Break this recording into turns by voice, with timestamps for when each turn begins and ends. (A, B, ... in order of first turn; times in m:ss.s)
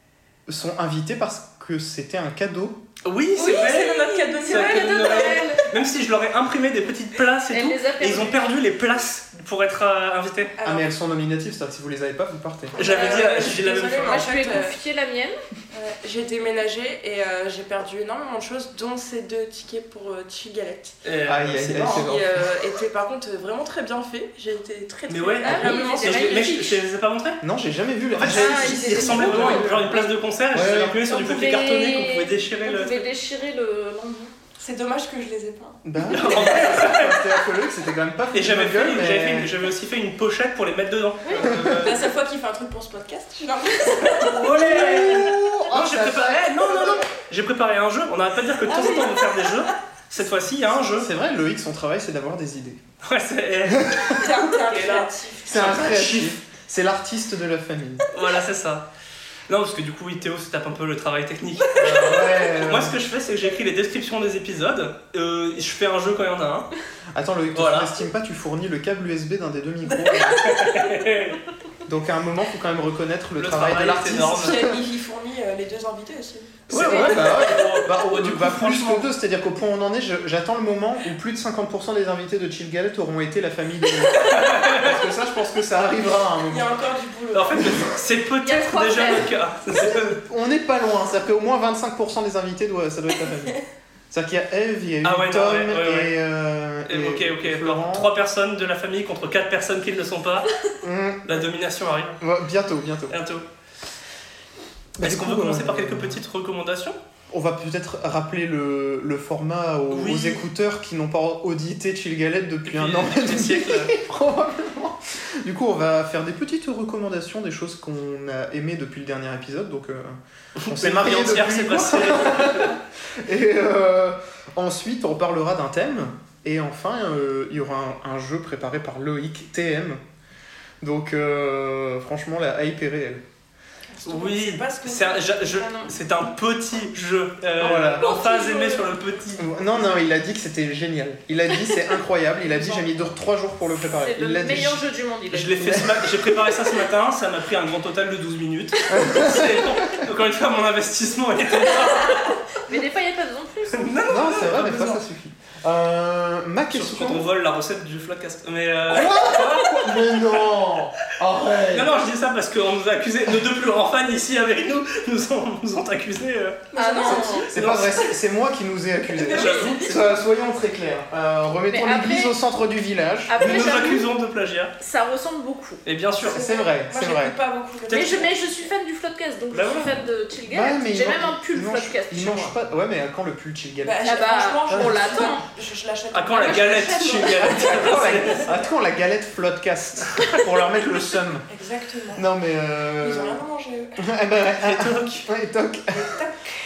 0:00.5-0:02.8 A
0:03.0-0:10.5 B
0:03.4-0:05.7 C
0:03.7-0:05.7 D
0:07.5-0:08.4 D
0:10.6-0:10.9 C
0:10.6-0:12.8 A
0:12.8-0:14.8 C
0:12.8-0:14.3 B
0:13.0-0:15.4 D
0:15.7-0:21.0 C
0:21.0-0:22.1 B
0:21.3-0:22.5 A
0:21.5-0:26.5 C
0:25.1-0:27.4 B
0:25.4-0:26.8 D
0:27.4-0:29.9 A
0:28.2-0:33.1 B
0:28.3-0:30.2 D
0:30.5-0:31.0 A
0:31.1-0:34.3 D
0:34.6-0:35.8 C
0:35.8-0:39.6 A
0:36.0-0:37.4 B
0:38.3-0:42.1 B
0:41.4-0:42.0 A
0:41.8-0:44.7 C
0:44.2-0:51.1 B
0:44.4-0:47.0 A
0:48.7-0:49.8 C
0:50.9-0:52.8 A
0:53.0-0:56.4 B
0:53.7-0:54.2 A
0:54.1-0:55.8 C
0:55.5-0:58.1 A
0:58.1-0:58.8 B
0:59.5-1:06.7 B
1:01.8-1:03.0 A
1:07.1-1:10.6 A
1:07.6-1:07.9 B
1:10.1-1:11.4 B
1:11.9-1:14.8 A
1:13.4-1:14.7 B
1:14.3-1:16.7 C
1:16.7-1:19.1 B
1:16.7-1:26.8 A
1:16.8-1:17.6 D
1:24.2-1:25.0 B
1:26.5-1:28.0 C
1:27.3-1:30.2 B
1:28.4-1:29.3 D
1:29.7-1:33.6 A
1:33.3-1:33.6 C
1:34.1-1:38.1 A
1:35.0-1:36.2 B
1:36.9-1:40.5 B
1:40.8-1:41.5 A
1:41.2-1:42.2 B
1:42.2-1:43.2 A
1:43.1-1:43.4 B
1:45.0-1:46.2 A
1:45.0-1:47.0 B
1:47.3-2:10.0 A
1:49.9-1:50.4 B
1:52.6-1:53.9 B
2:00.6-2:02.8 B
2:10.8-2:13.2 A
2:13.9-2:15.6 C
2:14.0-2:20.0 B
2:15.5-2:15.9 D
2:17.6-2:18.1 A
2:17.7-2:18.9 D
2:19.4-2:24.8 A
2:22.4-2:22.8 C
2:23.9-2:25.8 D
2:25.3-2:32.4 B
2:25.6-2:26.4 A
2:28.9-2:30.1 A
2:31.7-2:33.9 D
2:33.7-2:35.0 B
2:34.1-2:37.3 A
2:36.7-2:40.5 B
2:38.9-2:41.9 A
2:41.7-2:46.7 B
2:46.7-2:47.5 C
2:46.8-2:47.5 D
2:47.0-2:53.6 A
2:47.5-2:48.1 B
2:49.1-2:50.2 C
2:49.3-2:49.8 B
2:51.7-2:52.4 D
2:53.3-2:54.1 D
2:53.4-2:54.8 B
2:54.8-2:55.8 D
2:55.8-2:56.4 B
2:56.2-2:58.6 C
2:56.2-2:57.4 A
2:57.9-3:02.5 D
2:57.9-2:58.2 B
2:59.5-3:00.0 B
3:00.5-3:04.1 A
3:03.8-3:08.6 C
3:04.0-3:05.4 D
3:04.7-3:05.1 A
3:06.1-3:08.5 B
3:06.4-3:08.3 D
3:07.4-3:11.5 A
3:11.5-3:12.2 C
3:12.1-3:13.4 A
3:13.0-3:14.0 C
3:14.0-3:16.2 A
3:14.6-3:15.3 B
3:15.9-3:16.5 C